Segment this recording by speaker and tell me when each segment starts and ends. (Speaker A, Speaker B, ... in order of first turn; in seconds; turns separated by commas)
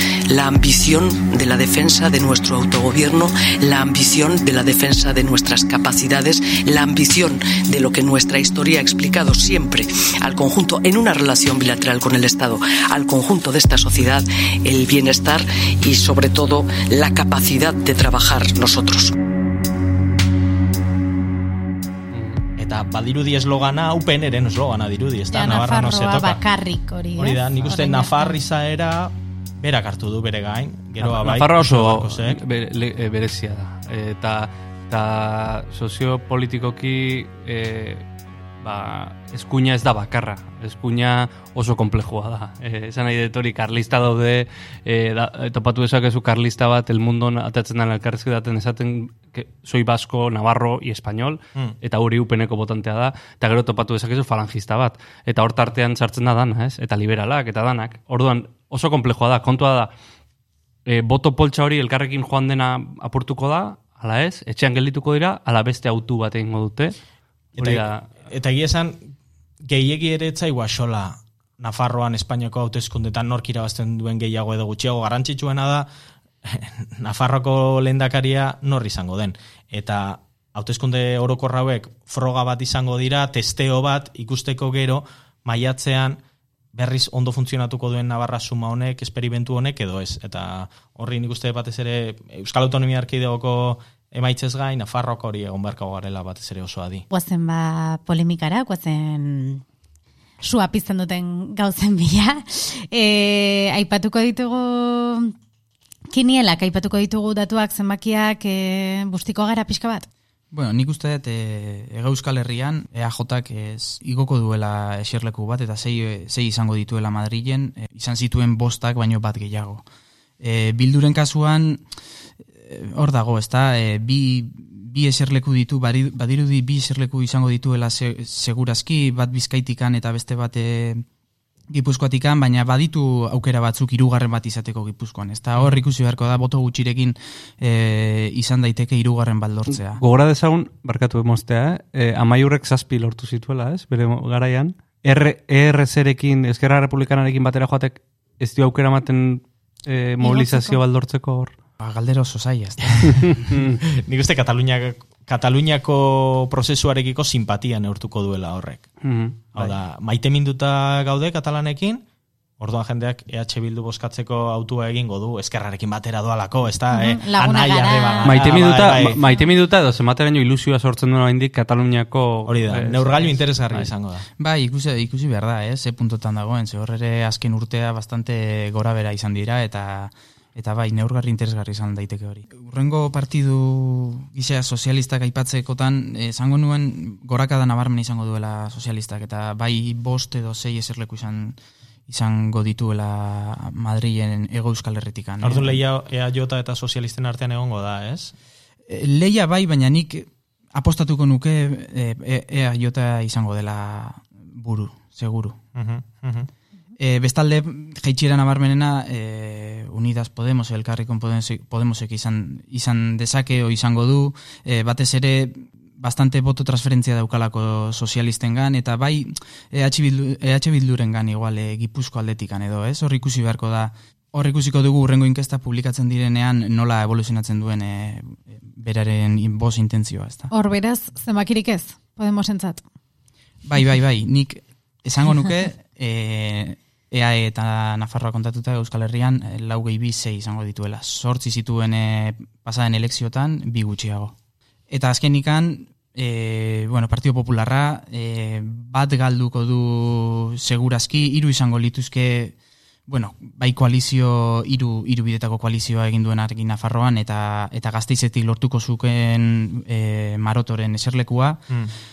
Speaker A: 0.3-19.1, Speaker B: 22.1-22.4, Speaker C: 22.6-26.4, Speaker D: 25.3-28.4, Speaker C: 27.2-32.4, Speaker B: 31.0-38.0, Speaker B: 38.6-59.9, Speaker B: 60.9-67.0, Speaker C: 67.6-69.1, Speaker B: 67.6-68.0, Speaker C: 69.7-75.9, Speaker C: 76.5-86.2, Speaker C: 86.7-97.0, Speaker D: 97.1-99.6, Speaker D: 100.4-105.3, Speaker D: 106.1-110.1, Speaker E: 110.5-119.8, Speaker E: 120.4-121.8, Speaker E: 122.6-131.0, Speaker E: 131.7-140.0, Speaker B: 140.0-151.5, Speaker E: 150.2-150.8, Speaker E: 151.8-153.6, Speaker B: 153.3-153.8, Speaker C: 153.8-158.9, Speaker B: 159.0-159.4, Speaker C: 159.5-162.0, Speaker C: 162.6-169.2, Speaker D: 166.9-168.6, Speaker B: 168.2-173.9, Speaker C: 172.5-174.2, Speaker E: 174.4-195.8, Speaker C: 195.4-198.3, Speaker E: 198.9-205.6, Speaker C: 205.8-206.5, Speaker E: 207.0-230.5, Speaker D: 230.5-232.8, Speaker E: 233.7-244.3, Speaker E: 244.9-252.6, Speaker E: 253.1-261.6